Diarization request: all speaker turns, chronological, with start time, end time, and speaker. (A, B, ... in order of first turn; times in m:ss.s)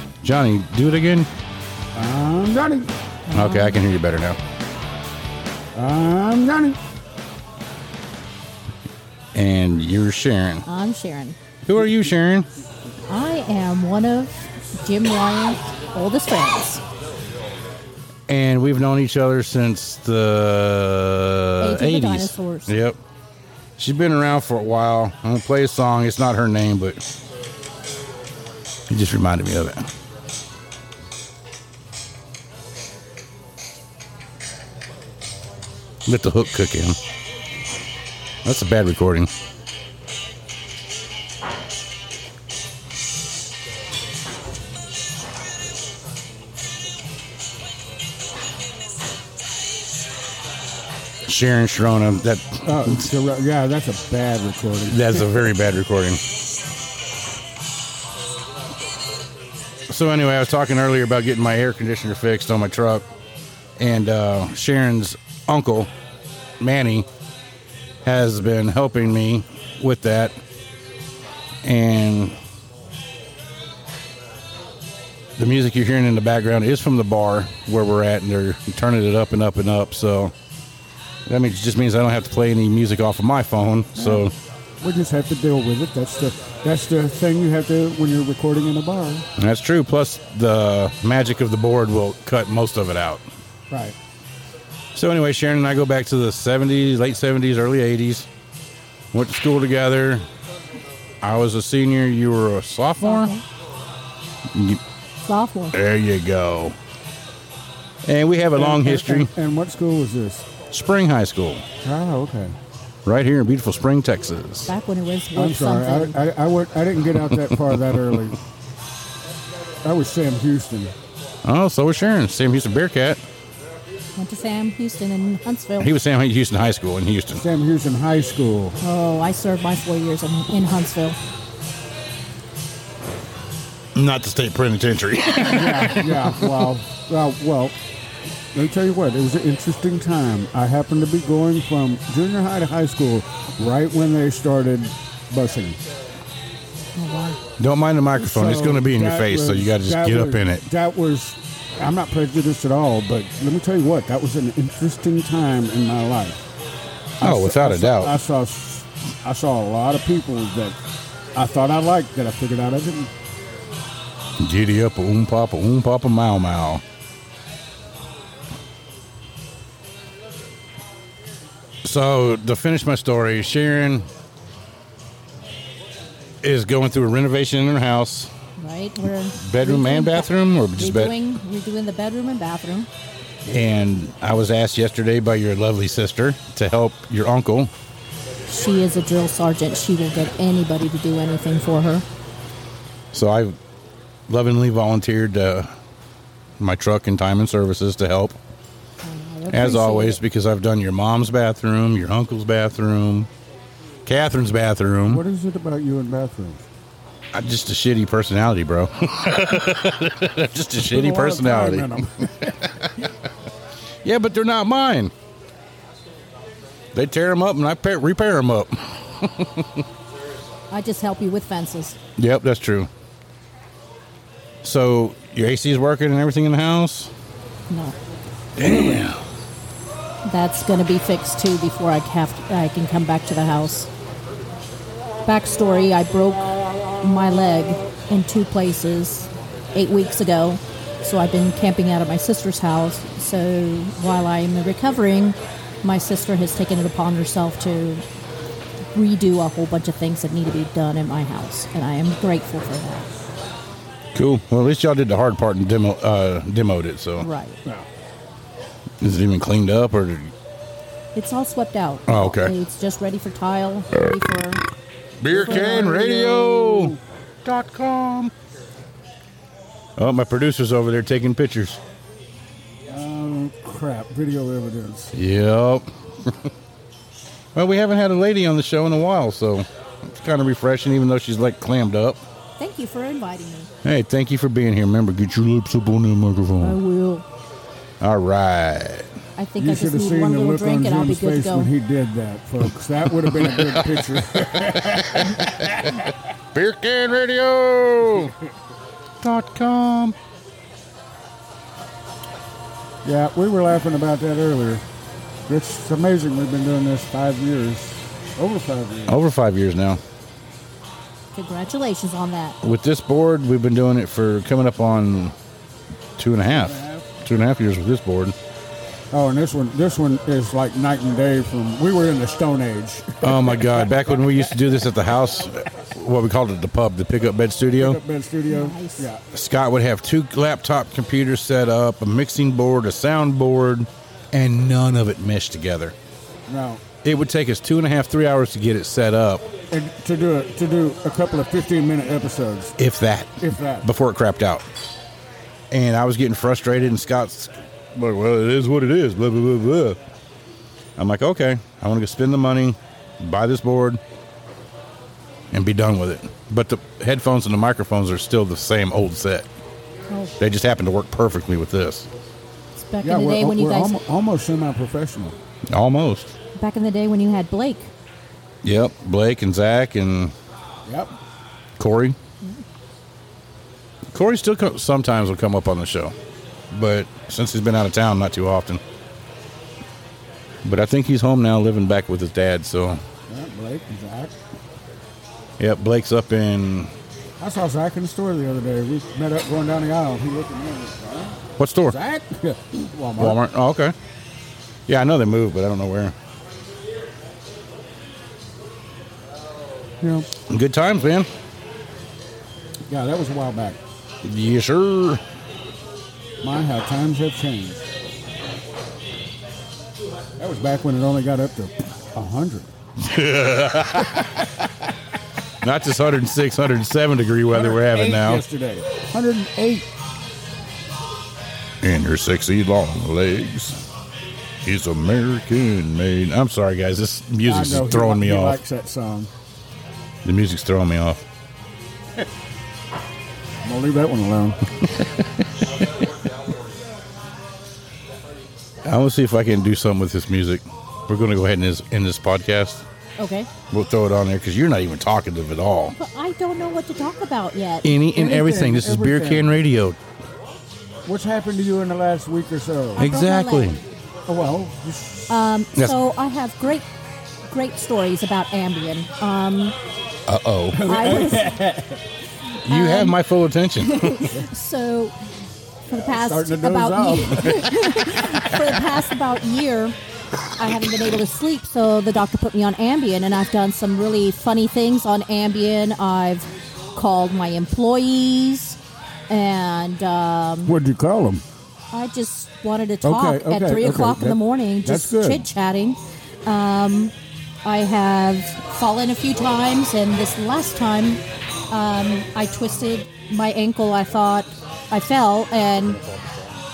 0:00.2-0:01.3 A
0:01.9-0:02.9 B
0:03.3-0:03.8 C
0:03.3-0:04.4 A
0:05.7-0:06.8 B
0:09.3-0:10.6 A
0:10.6-0:11.4 C
0:11.6-0:12.5 A
0:13.1-0:16.8 C
0:18.3-0:23.0 A
0:21.6-0:22.7 C
0:23.8-0:27.0 A
0:28.9-0:29.9 A
0:36.0-0:37.0 A
0:38.4-0:39.3 A
0:51.3-0:53.0 A
0:52.6-0:55.5 B
0:54.9-0:56.2 A
0:59.9-1:03.0 A
1:03.8-1:05.9 A
1:06.6-1:07.0 A
1:08.0-1:10.4 A
1:11.6-1:12.4 A
1:15.4-1:20.3 A
1:21.3-1:24.3 A
1:24.0-1:24.3 B
1:24.8-1:29.2 B
1:29.4-1:33.2 A
1:33.7-1:33.9 B
1:34.9-1:38.3 A
1:39.1-1:40.2 A
1:41.2-1:43.3 A
1:43.0-1:43.4 C
1:44.5-1:44.8 A
1:45.2-1:45.7 C
1:45.7-1:46.7 A
1:48.0-1:49.3 A
1:48.5-1:50.5 B
1:50.7-1:51.6 A
1:51.8-1:52.5 B
1:53.0-1:54.7 A
1:54.7-1:56.2 C
1:55.3-1:58.4 B
1:59.8-2:00.9 B
2:01.4-2:03.2 A
2:04.2-2:05.9 C
2:05.8-2:07.4 A
2:07.3-2:08.8 B
2:08.8-2:11.2 C
2:13.9-2:16.6 A
2:15.4-2:17.8 B
2:18.5-2:25.8 B
2:27.0-2:27.4 C
2:27.6-2:30.6 A
2:28.2-2:36.4 B
2:37.2-2:40.8 B
2:37.2-2:38.1 A
2:41.3-2:43.1 B
2:44.4-2:46.8 A
2:51.8-2:54.1 A
2:56.4-2:58.3 A
2:58.6-3:02.9 C
2:59.4-3:01.1 A
3:03.4-3:07.7 A
3:08.5-3:12.0 C
3:13.1-3:13.6 A
3:14.3-3:15.7 A
3:16.6-3:18.4 A
3:19.0-3:20.2 C
3:19.5-3:23.3 A
3:24.0-3:25.2 A
3:25.1-3:26.6 B
3:27.3-3:31.9 A
3:30.8-3:32.5 B
3:32.4-3:33.1 A
3:34.0-3:35.1 A
3:36.9-3:39.8 A
3:40.7-3:42.0 C
3:42.2-3:42.9 A
3:44.6-3:47.1 A
3:47.7-3:47.9 C
3:48.6-3:49.2 A
3:50.2-3:53.9 C
3:55.2-4:08.0 C
4:08.9-4:13.1 C
4:14.1-4:17.3 A
4:17.2-4:17.6 C
4:19.0-4:20.3 A
4:21.1-4:24.6 C
4:22.1-4:22.5 A
4:25.2-4:28.3 A
4:25.3-4:27.0 B
4:25.3-4:25.9 C
4:30.0-4:31.8 A
4:32.9-4:35.1 B
4:35.1-4:36.5 A
4:37.5-4:42.2 A
4:42.6-4:43.7 C
4:43.8-4:46.8 A
4:46.6-4:47.2 C
4:48.0-4:49.1 A
4:49.4-4:51.7 C
4:49.6-4:56.0 B
4:53.2-4:53.9 A
4:54.6-4:56.0 A
4:56.5-4:58.3 A
4:59.2-5:00.2 A
5:03.0-5:04.8 B
5:05.5-5:09.2 B
5:09.1-5:10.0 A
5:11.3-5:12.6 C
5:12.6-5:15.3 A
5:16.2-5:18.3 A
5:16.5-5:17.1 B
5:19.1-5:23.9 B
5:23.2-5:28.0 A
5:27.8-5:29.2 B
5:28.5-5:29.1 C
5:29.3-5:35.9 A
5:36.5-5:36.8 B
5:37.0-5:39.4 A
5:39.7-5:42.8 B
5:42.8-5:44.6 A
5:43.4-5:43.9 B
5:45.7-5:50.0 A
5:51.0-5:54.0 A
5:55.5-5:59.5 A
6:00.4-6:02.1 A
6:02.8-6:04.0 C
6:03.0-6:05.4 B
6:05.7-6:06.3 A
6:06.6-6:07.9 C
6:08.6-6:10.3 A
6:10.8-6:11.1 B
6:11.8-6:12.2 A
6:14.1-6:16.1 A
6:16.7-6:18.8 A
6:20.6-6:23.0 A
6:23.3-6:24.4 B
6:25.6-6:26.9 A
6:27.4-6:33.4 B
6:31.6-6:32.0 A
6:33.2-6:33.9 A
6:34.9-6:36.1 A
6:40.0-6:40.3 B
6:40.5-6:41.3 A
6:42.9-6:43.8 B
6:44.2-6:45.2 A
6:46.4-6:47.8 B
6:50.4-6:52.7 B
6:53.0-6:54.5 A
6:55.6-6:58.4 A
6:57.5-6:59.9 B
7:01.8-7:03.8 A
7:04.6-7:08.6 A
7:07.4-7:09.3 B
7:10.2-7:11.2 A
7:13.6-7:14.6 B
7:18.8-7:22.8 A
7:23.2-7:23.5 C
7:23.7-7:25.9 A
7:25.9-7:27.9 C
7:27.8-7:30.0 A
7:28.1-7:29.6 B
7:31.0-7:33.1 B
7:33.0-7:33.8 C
7:33.0-7:33.8 A
7:34.3-7:35.3 B
7:35.3-7:36.9 C
7:37.5-7:39.8 C
7:40.3-7:40.9 A
7:40.7-7:42.0 B
7:40.8-7:41.5 C
7:42.6-7:43.2 C
7:42.6-7:44.3 A
7:43.8-7:45.1 C
7:45.9-7:50.0 C
7:45.9-7:47.6 B
7:50.6-8:00.7 C
8:00.6-8:01.4 B
8:01.9-8:07.1 C
8:03.0-8:05.5 B
8:07.6-8:16.0 C